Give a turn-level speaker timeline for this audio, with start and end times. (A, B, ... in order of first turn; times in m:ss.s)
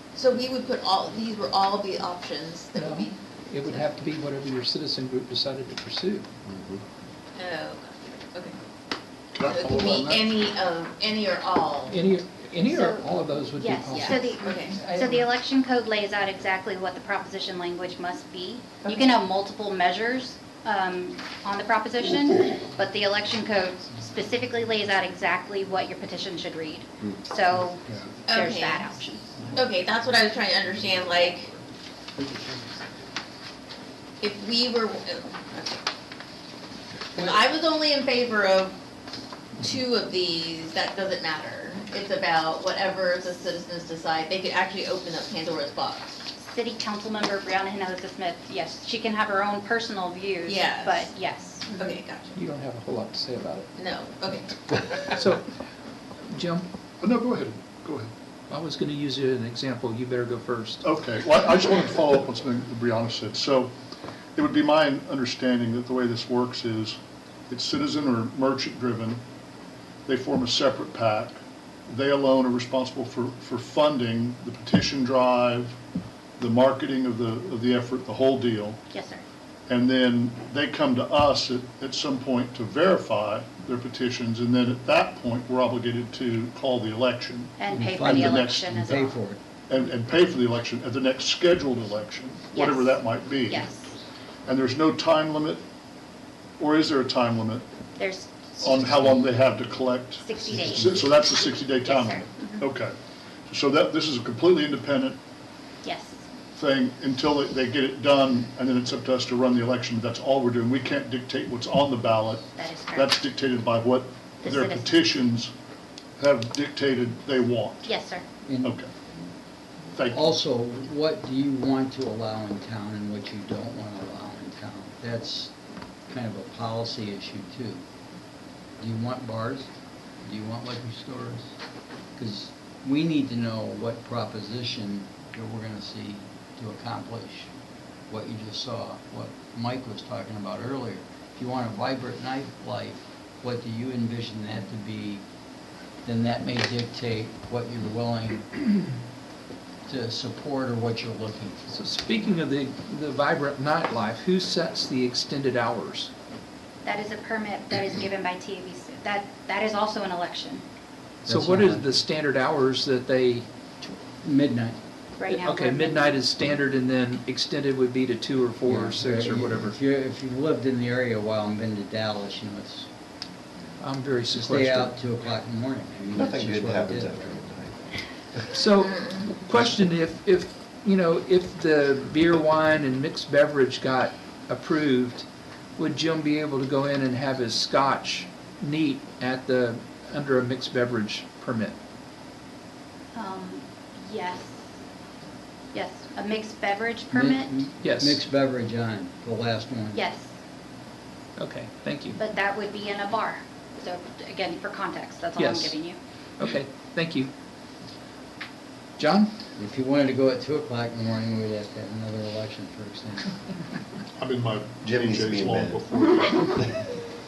0:00.1-0:03.8 A
0:02.7-0:06.3 B
0:06.5-0:06.8 C
0:07.4-0:08.6 A
0:09.3-0:10.3 D
0:09.4-0:12.0 A
0:11.9-0:15.3 B
0:12.6-0:29.3 E
0:13.9-0:14.8 A
0:18.8-0:19.1 A
0:27.6-0:28.1 D
0:28.3-0:28.9 A
0:29.5-0:31.5 A
0:34.2-0:35.8 A
0:37.1-0:38.8 A
0:39.6-0:46.2 A
0:46.4-0:52.0 E
0:50.4-0:51.1 A
0:51.7-0:52.3 A
0:52.3-0:53.7 B
0:53.8-0:55.0 A
0:55.1-0:55.5 B
0:56.3-0:56.7 B
0:57.0-0:58.1 D
0:58.5-1:00.8 B
1:00.8-1:03.7 D
1:04.4-1:07.0 D
1:07.5-1:09.2 D
1:10.0-1:15.8 D
1:16.4-1:18.8 D
1:18.9-1:19.2 E
1:19.7-1:27.5 D
1:27.6-1:29.2 E
1:27.7-1:29.4 F
1:28.1-1:28.7 D
1:29.7-1:33.7 D
1:32.5-1:33.9 E
1:34.4-1:35.6 D
1:36.6-1:37.7 D
1:38.0-1:39.2 E
1:38.6-1:43.0 D
1:40.2-1:41.2 E
1:40.6-1:41.0 C
1:41.7-1:42.6 E
1:43.5-1:45.2 D
1:45.8-1:46.2 E
1:46.5-1:55.5 D
1:52.6-1:53.1 E
1:54.4-1:55.1 E
1:56.2-1:57.9 D
1:57.8-1:58.2 E
1:58.4-1:58.7 F
1:58.6-1:58.9 D
1:59.9-2:00.3 D
2:00.1-2:05.5 F
2:06.1-2:07.8 F
2:08.8-2:09.7 F
2:10.2-2:11.6 F
2:12.2-2:17.5 F
2:18.1-2:25.2 F
2:26.0-2:28.8 F
2:29.9-2:31.6 F
2:31.7-2:36.1 B
2:36.8-2:40.6 E
2:41.2-2:43.4 B
2:41.2-2:42.0 F
2:44.2-2:44.8 F
2:45.2-2:46.2 E
2:45.2-2:49.8 B
2:48.6-2:52.9 F
2:53.8-2:55.0 B
2:54.3-2:57.4 F
2:56.1-2:57.8 C
2:58.5-3:05.2 B
2:58.9-2:59.2 A
3:05.8-3:11.8 B
3:13.1-3:14.7 E
3:15.7-3:17.6 E
3:17.1-3:20.0 F
3:17.8-3:18.2 B
3:19.9-3:20.4 E
3:21.4-3:22.2 B
3:22.1-3:26.0 E
3:25.4-3:25.8 B
3:26.4-3:27.3 B
3:29.0-3:29.3 B
3:29.6-3:33.4 F
3:34.2-3:36.6 D
3:34.8-3:36.7 C